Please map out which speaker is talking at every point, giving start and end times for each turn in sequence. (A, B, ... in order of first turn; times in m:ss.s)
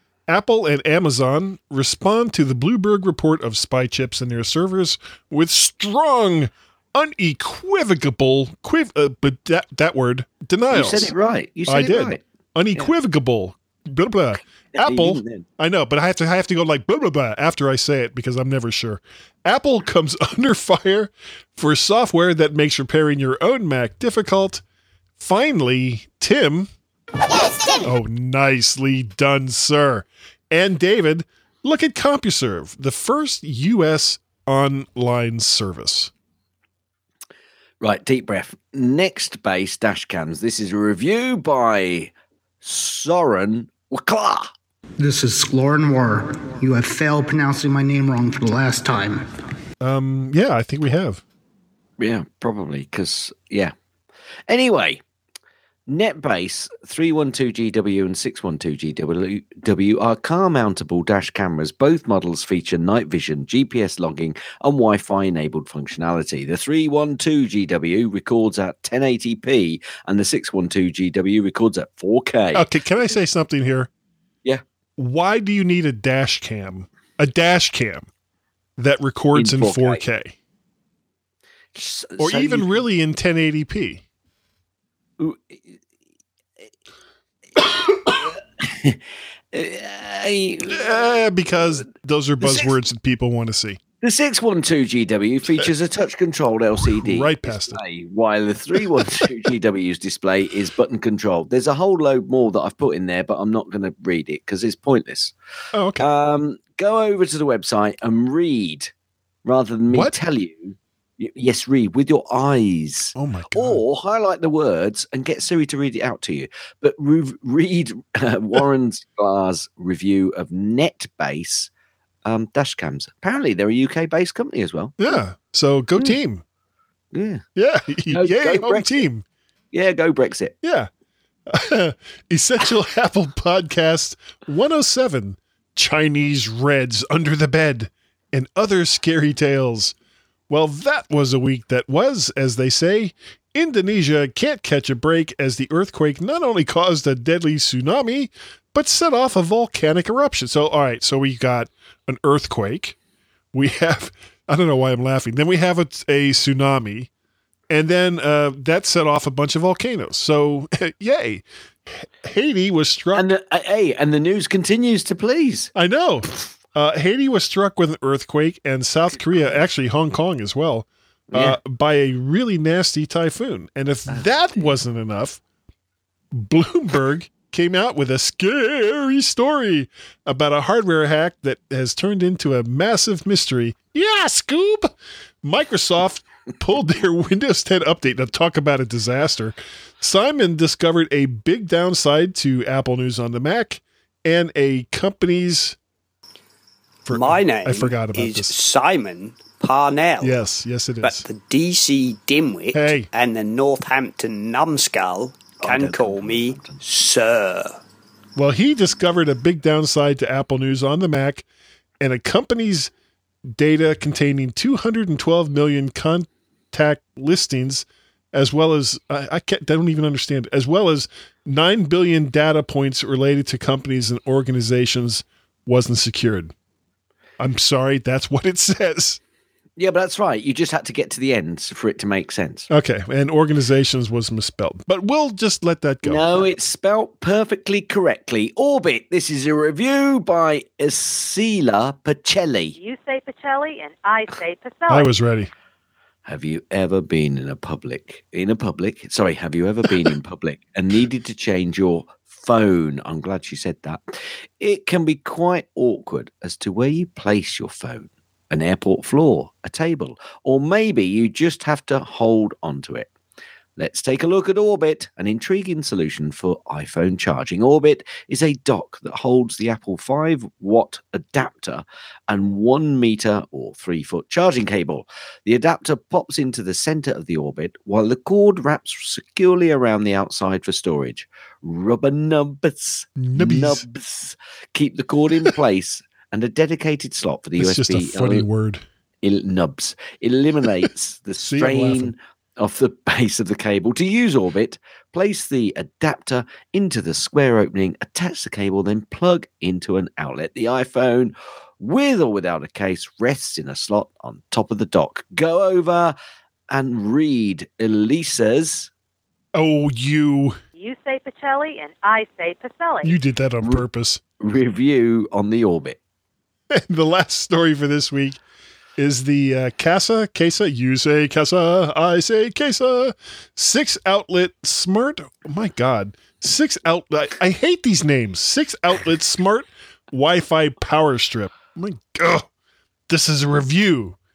0:00.3-0:11.1 A
0:10.7-0:12.2 B
0:11.7-0:24.6 A
0:14.8-0:15.5 B
0:25.2-0:26.7 A
0:27.8-0:36.1 A
0:37.8-0:42.1 B
0:42.6-0:44.5 B
0:45.0-0:49.2 C
0:49.8-0:51.2 A
0:52.0-0:53.7 B
0:54.5-0:55.0 B
0:55.9-1:12.6 B
1:12.6-1:13.9 A
1:15.0-1:18.1 A
1:18.8-1:20.3 A
1:19.4-1:20.0 B
1:21.8-1:22.8 B
1:22.2-1:24.0 A
1:25.2-1:25.8 B
1:27.6-1:29.0 B
1:29.5-1:31.1 B
1:30.7-1:33.8 A
1:32.4-1:32.8 B
1:34.0-1:45.3 B
1:36.9-1:37.8 A
1:45.7-1:46.0 A
1:46.0-1:48.9 B
1:49.4-2:01.7 B
1:53.2-1:53.8 A
2:02.2-2:05.0 B
2:05.0-2:06.4 A
2:07.1-2:07.4 B
2:07.6-2:09.2 A
2:08.1-2:09.1 B
2:09.7-2:10.6 B
2:10.6-2:10.9 A
2:11.5-2:19.9 A
2:20.5-2:33.0 A
2:33.5-2:37.1 A
2:37.7-2:41.4 A
2:42.0-2:43.3 A
2:43.1-2:45.7 B
2:45.8-2:55.4 A
2:51.3-2:51.6 B
2:54.1-2:54.8 B
2:56.3-3:04.9 A
3:05.4-3:15.8 A
3:17.1-3:18.6 A
3:17.1-3:20.4 D
3:20.2-3:21.2 A
3:21.0-3:27.8 D
3:22.7-3:23.1 A
3:25.6-3:26.8 B
3:28.4-3:31.4 A
3:32.0-3:32.9 A
3:33.6-3:46.5 A
3:47.4-3:49.2 A
3:49.8-3:52.7 B
3:52.7-3:56.4 A
3:56.0-4:02.8 B
4:02.8-4:05.1 E
4:04.9-4:05.5 A
4:06.3-4:23.1 B
4:23.8-4:48.4 B
4:43.2-4:43.8 A
4:47.6-4:48.8 A
4:49.2-5:06.1 B
4:51.4-4:52.1 A
5:06.7-5:08.9 B
5:09.5-5:10.6 A
5:10.8-5:13.2 E
5:13.0-5:14.2 A
5:14.4-5:16.0 B
5:16.7-5:18.4 A
5:19.0-5:32.5 A
5:33.1-5:34.2 A